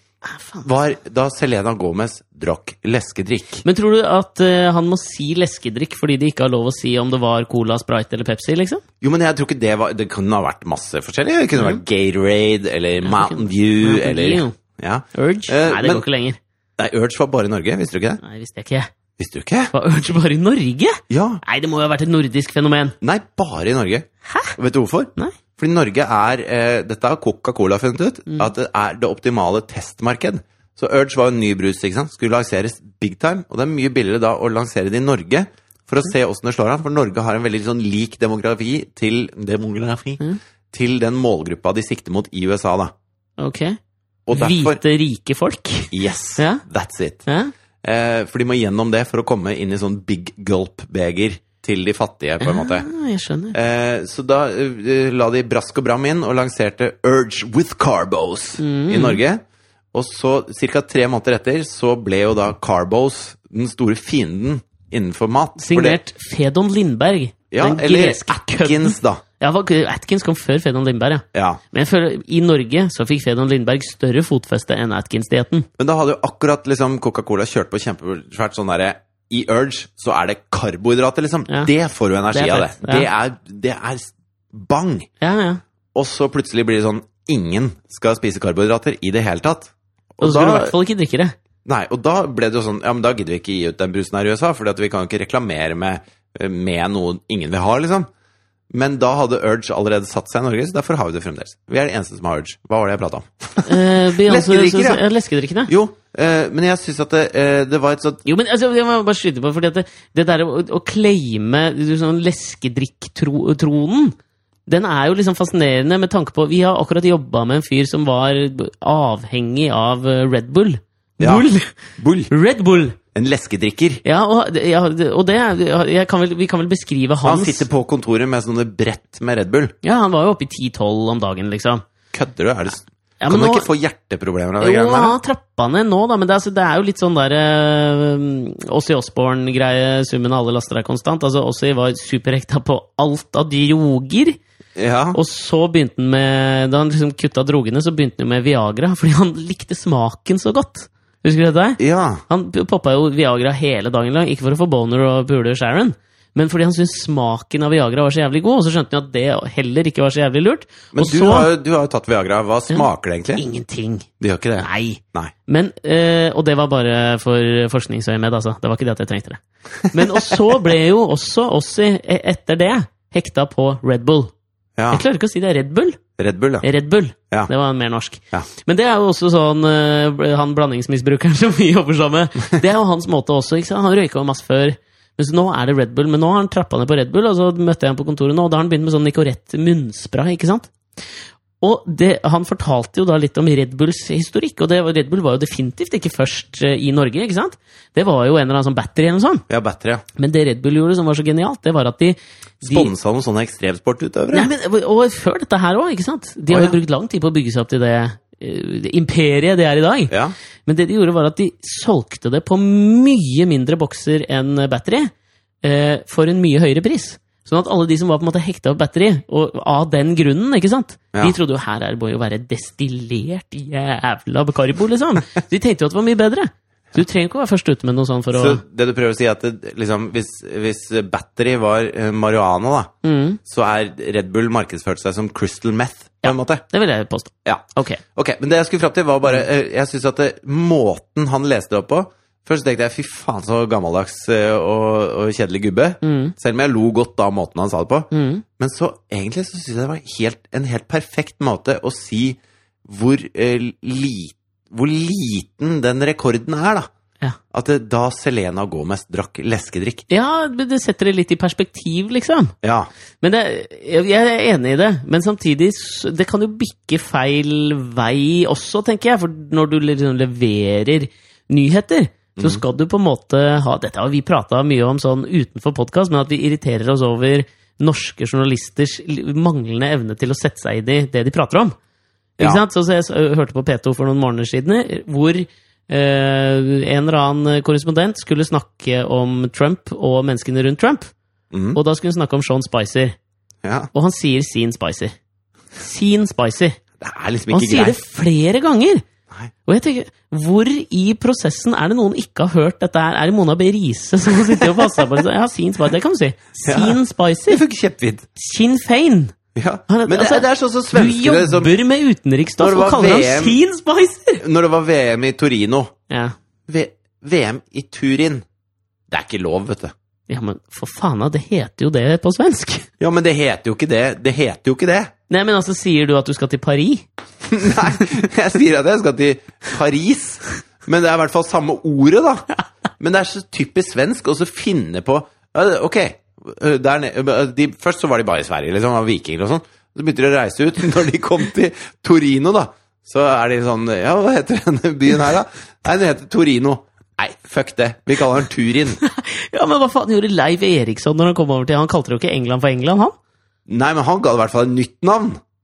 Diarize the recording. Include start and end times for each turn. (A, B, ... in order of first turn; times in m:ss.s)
0:00.2-0:00.6 A
0:00.6-0:03.6 B
0:03.6-0:08.8 A
0:09.0-0:16.0 B
0:11.6-0:11.8 A
0:13.0-0:14.5 A
0:15.1-0:16.4 A
0:16.8-0:18.2 B
0:18.2-0:18.9 A
0:19.2-0:19.7 B
0:19.7-0:22.9 A
0:21.1-0:21.4 B
0:23.0-0:42.9 B
0:24.2-0:24.5 A
0:43.4-0:43.8 A
0:44.3-0:44.8 B
0:44.3-0:46.6 A
0:45.9-0:47.2 B
0:47.3-0:47.5 A
0:47.8-0:52.8 B
0:52.4-0:53.6 A
0:53.5-0:59.4 B
0:58.6-0:59.2 A
0:59.9-1:06.0 B
1:05.6-1:15.7 A
1:07.5-1:09.2 B
1:11.3-1:11.6 B
1:15.8-1:25.1 B
1:22.3-1:23.1 A
1:25.2-1:25.6 A
1:25.9-1:30.7 B
1:30.2-1:31.3 A
1:31.6-1:38.1 B
1:38.7-1:45.0 B
1:43.6-1:45.7 A
1:45.7-1:48.2 B
1:48.2-1:54.1 A
1:54.7-2:01.7 A
2:01.2-2:02.3 B
2:02.3-2:03.0 A
2:03.1-2:04.0 B
2:04.0-2:07.6 A
2:07.2-2:09.7 B
2:09.8-2:11.8 A
2:12.1-2:15.2 B
2:13.2-2:13.7 A
2:14.6-2:24.4 A
2:24.8-2:25.2 B
2:25.1-2:41.5 A
2:31.8-2:32.2 B
2:40.9-2:43.4 B
2:42.7-2:44.1 A
2:44.2-2:45.3 B
2:44.6-2:49.4 A
2:49.8-2:50.4 B
2:49.9-2:54.3 A
2:54.8-2:55.0 B
2:54.9-2:56.0 A
2:56.2-2:56.7 B
2:56.6-3:10.7 A
3:11.6-3:19.4 A
3:19.5-3:20.0 B
3:20.2-3:22.9 A
3:22.6-3:24.5 B
3:24.3-3:30.1 A
3:26.5-3:26.8 B
3:30.1-3:30.3 B
3:30.6-3:35.1 A
3:35.6-3:48.6 A
3:48.3-3:52.9 B
3:53.0-3:53.4 A
3:53.4-3:56.6 B
3:56.2-3:58.0 A
3:57.4-4:16.9 B
4:06.0-4:06.3 A
4:08.1-4:08.4 A
4:17.5-4:20.0 B
4:20.1-4:22.5 A
4:22.6-4:22.9 B
4:23.2-4:41.7 A
4:32.4-4:32.6 B
4:42.4-4:51.1 A
4:51.5-4:51.8 B
4:51.7-4:53.1 A
4:53.6-4:53.9 B
4:53.9-4:55.1 A
4:55.8-4:56.8 A
4:57.0-4:58.0 B
4:57.5-4:59.0 A
4:59.6-5:07.6 A
5:06.6-5:08.3 B
5:08.4-5:09.3 A
5:09.5-5:11.7 B
5:09.9-5:14.4 A
5:12.6-5:13.6 B
5:14.4-5:15.9 B
5:16.1-5:16.3 A
5:16.7-5:18.4 B
5:19.1-5:19.9 B
5:20.3-5:22.9 A
5:23.0-5:25.1 B
5:25.3-5:27.1 A
5:27.5-5:32.5 B
5:33.0-5:49.0 B
5:49.0-5:53.1 A
5:53.7-5:55.4 B